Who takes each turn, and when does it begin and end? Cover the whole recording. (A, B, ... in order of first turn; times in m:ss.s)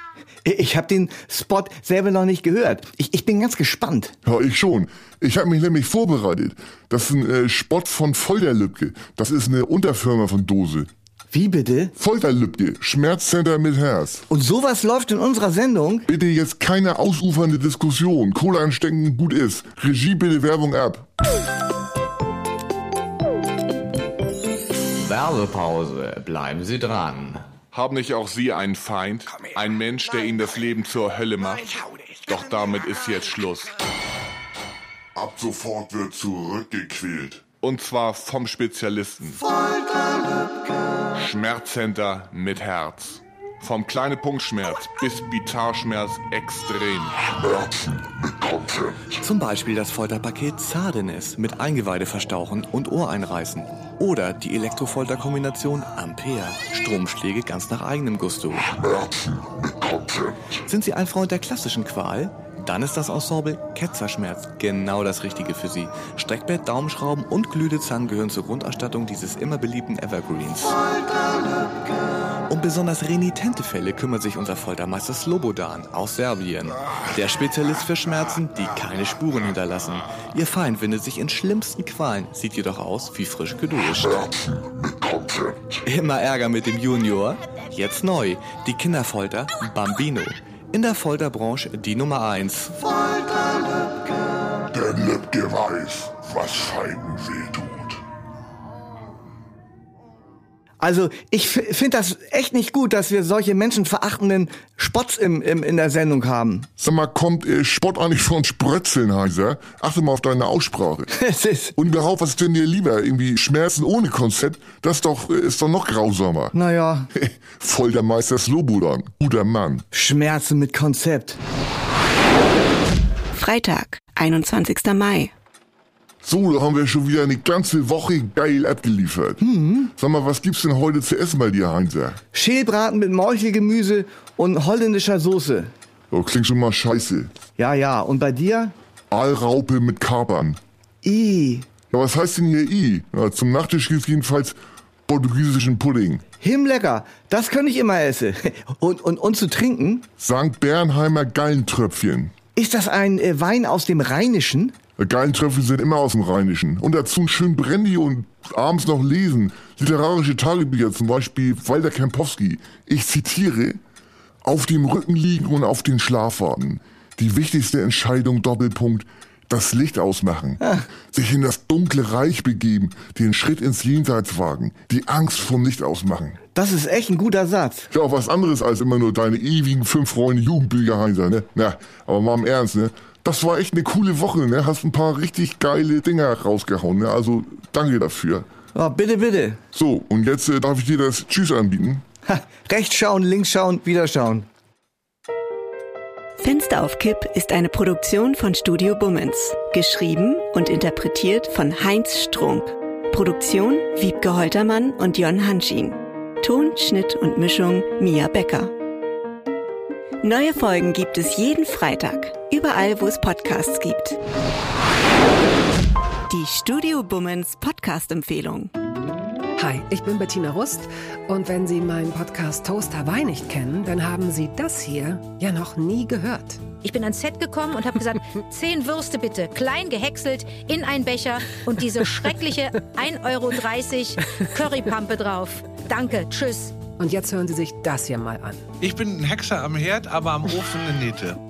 0:00.4-0:04.1 A
0:04.2-0:10.9 B
0:11.3-0:11.9 A
0:12.0-0:14.2 B
0:14.3-0:16.1 A
0:16.1-0:21.0 B
0:25.0-0:27.4 C
0:27.8-0:33.8 D
0:35.1-0:37.5 B
0:37.6-0:39.4 D
0:41.2-0:47.3 D
0:47.4-0:49.0 B
0:49.2-0:58.9 E
0:59.0-1:00.0 B
1:00.7-1:10.8 E
1:12.5-1:24.3 E
1:24.5-1:25.6 B
1:25.9-1:32.8 E
1:34.7-1:38.0 B
1:40.8-1:46.7 A
1:46.8-1:51.1 B
1:51.2-1:51.7 A
1:51.8-1:56.5 B
1:56.5-1:57.1 A
1:57.1-1:59.8 B
1:59.9-2:01.4 A
2:03.3-2:05.3 F
2:06.2-2:09.4 B
2:09.4-2:09.9 A
2:10.0-2:12.2 B
2:12.3-2:15.7 A
2:16.1-2:17.3 B
2:17.6-2:18.7 A
2:19.1-2:20.6 B
2:21.0-2:21.7 A
2:21.9-2:24.5 B
2:25.1-2:26.2 B
2:26.4-2:30.0 A
2:30.2-2:32.3 B
2:32.6-2:34.7 A
2:35.0-2:43.8 B
2:44.4-2:50.6 B
2:50.6-2:50.9 A
2:51.1-2:56.4 B
2:56.5-2:57.9 A
2:57.9-3:08.4 B
3:08.7-3:09.6 A
3:09.8-3:12.0 B
3:12.3-3:14.5 A
3:16.4-3:28.7 F
3:30.2-3:34.2 F
3:36.3-3:38.7 F
3:39.6-3:46.6 G
3:46.8-3:56.8 H
3:57.0-3:58.6 G
3:58.8-4:01.4 I